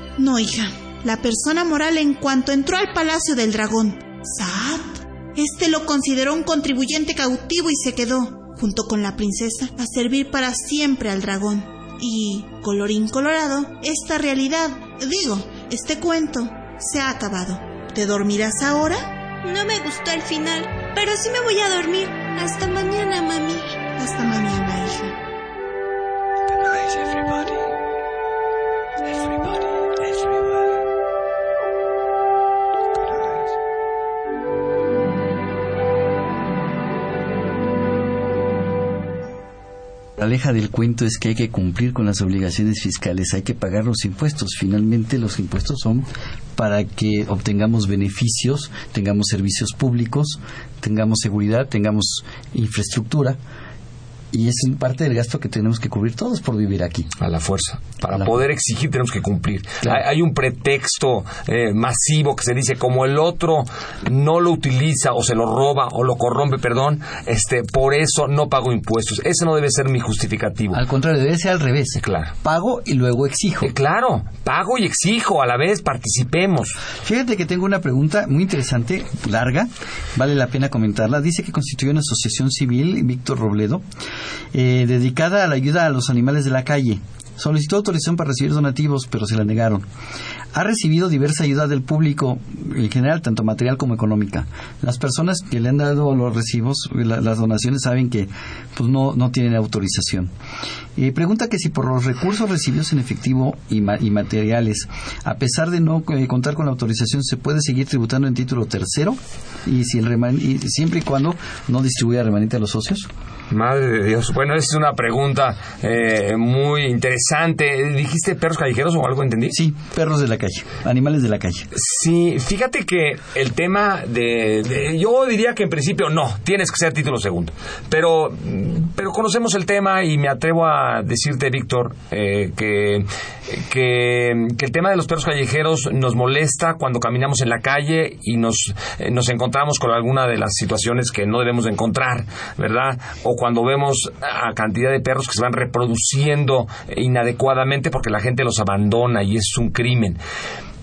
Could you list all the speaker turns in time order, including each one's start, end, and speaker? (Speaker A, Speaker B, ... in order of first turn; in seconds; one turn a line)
Speaker A: 0.2-19.2
Speaker B: 19.4-23.8
Speaker A: 24.0-25.2
Speaker C: 40.2-53.4
Speaker C: 54.3-57.1
Speaker D: 57.2-70.8
Speaker C: 70.7-73.7
Speaker D: 72.0-72.3
Speaker D: 73.6-76.8
Speaker C: 77.0-83.8
Speaker C: 84.5-89.8
Speaker C: 90.5-100.3
Speaker C: 101.0-113.1
Speaker D: 113.5-119.6
Speaker C: 119.5-121.7
Speaker D: 121.7-150.2